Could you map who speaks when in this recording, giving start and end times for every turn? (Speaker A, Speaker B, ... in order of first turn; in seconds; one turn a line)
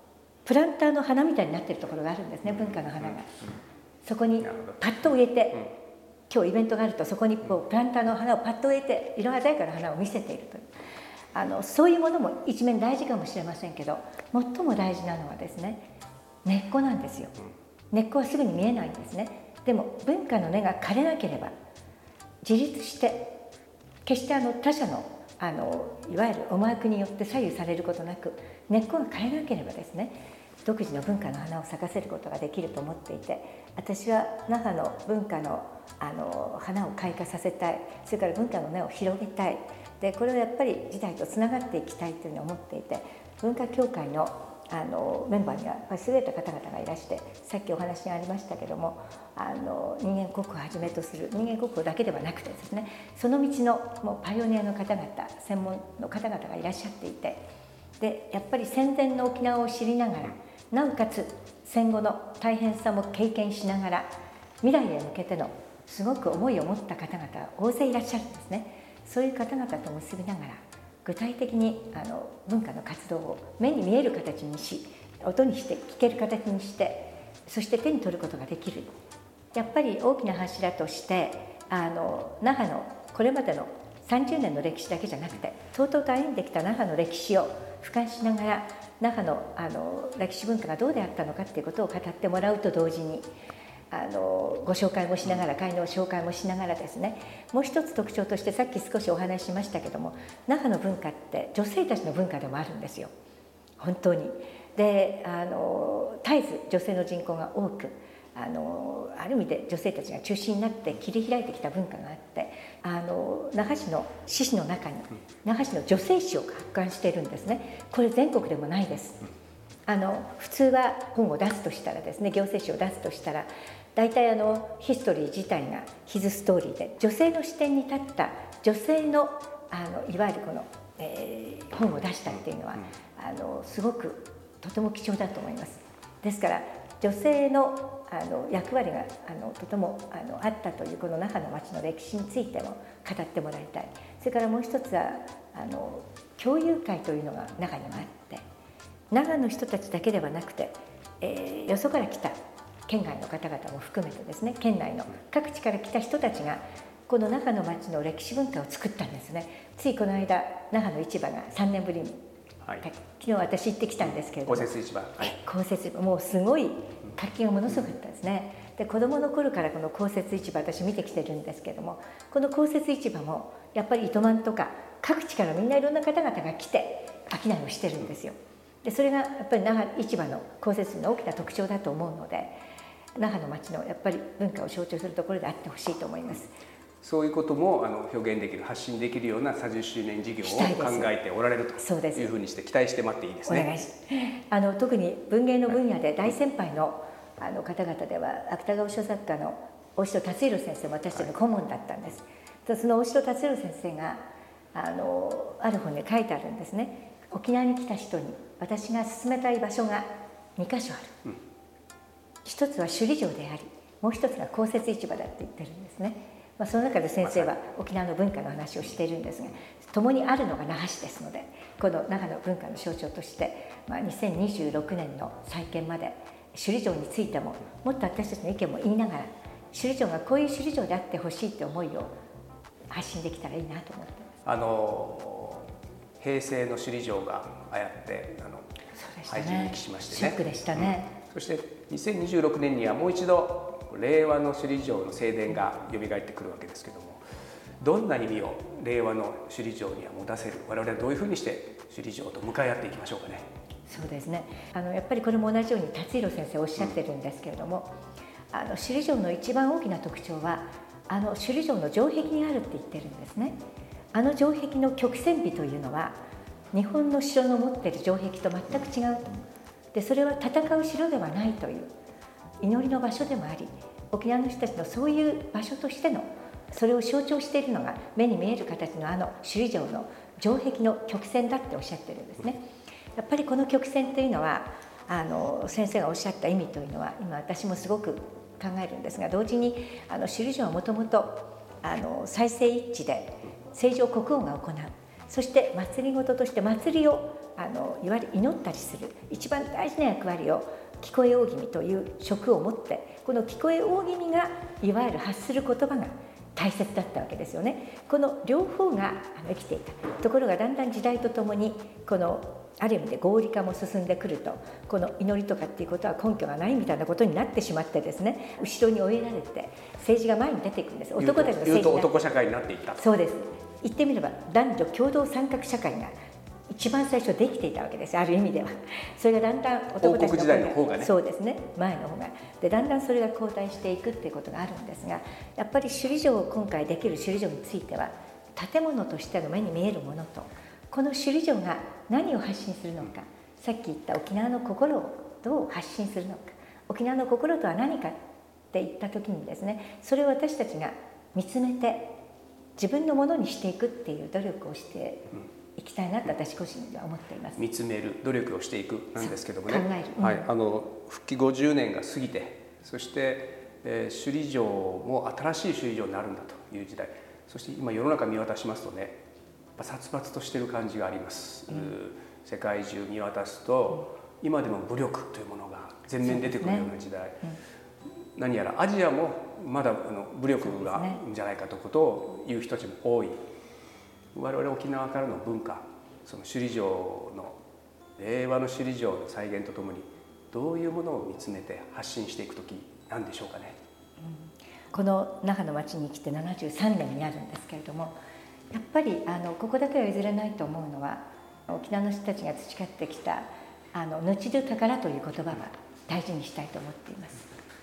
Speaker A: 0.4-3.4
Speaker B: 2.7-3.1
Speaker A: 4.0-5.7
Speaker B: 4.4-4.8
Speaker A: 6.3-10.7
Speaker A: 11.3-15.9
Speaker A: 16.4-17.3
Speaker A: 17.9-21.5
Speaker A: 22.4-23.4
Speaker A: 24.0-57.5
Speaker A: 58.0-78.9
Speaker A: 79.5-93.3
Speaker A: 93.9-103.1
Speaker A: 103.8-119.3
Speaker A: 119.9-148.4
Speaker A: 149.1-162.2
Speaker A: 162.8-182.6
Speaker B: 164.4-165.3
Speaker A: 183.2-186.5
Speaker B: 187.0-193.7
Speaker A: 190.4-191.1
Speaker A: 191.8-192.3
Speaker A: 193.4-211.2
Speaker A: 212.4-232.1
Speaker A: 232.9-234.4
Speaker B: 234.4-238.7
Speaker A: 238.9-241.1
Speaker B: 239.2-247.2
Speaker B: 247.8-253.5
Speaker A: 253.9-258.0
Speaker A: 258.5-263.6
Speaker A: 264.1-266.2
Speaker A: 266.7-269.3
Speaker A: 269.9-271.9
Speaker A: 272.6-322.1
Speaker B: 321.2-323.0
Speaker A: 323.0-326.1
Speaker A: 326.7-352.2
Speaker B: 330.0-331.1
Speaker A: 352.8-357.6
Speaker B: 357.6-369.2
Speaker A: 359.2-360.5
Speaker B: 369.8-377.4
Speaker A: 376.2-376.9
Speaker B: 378.4-383.4
Speaker A: 380.6-381.2
Speaker B: 384.3-387.6
Speaker B: 388.2-393.8
Speaker A: 394.2-398.2
Speaker A: 398.7-407.5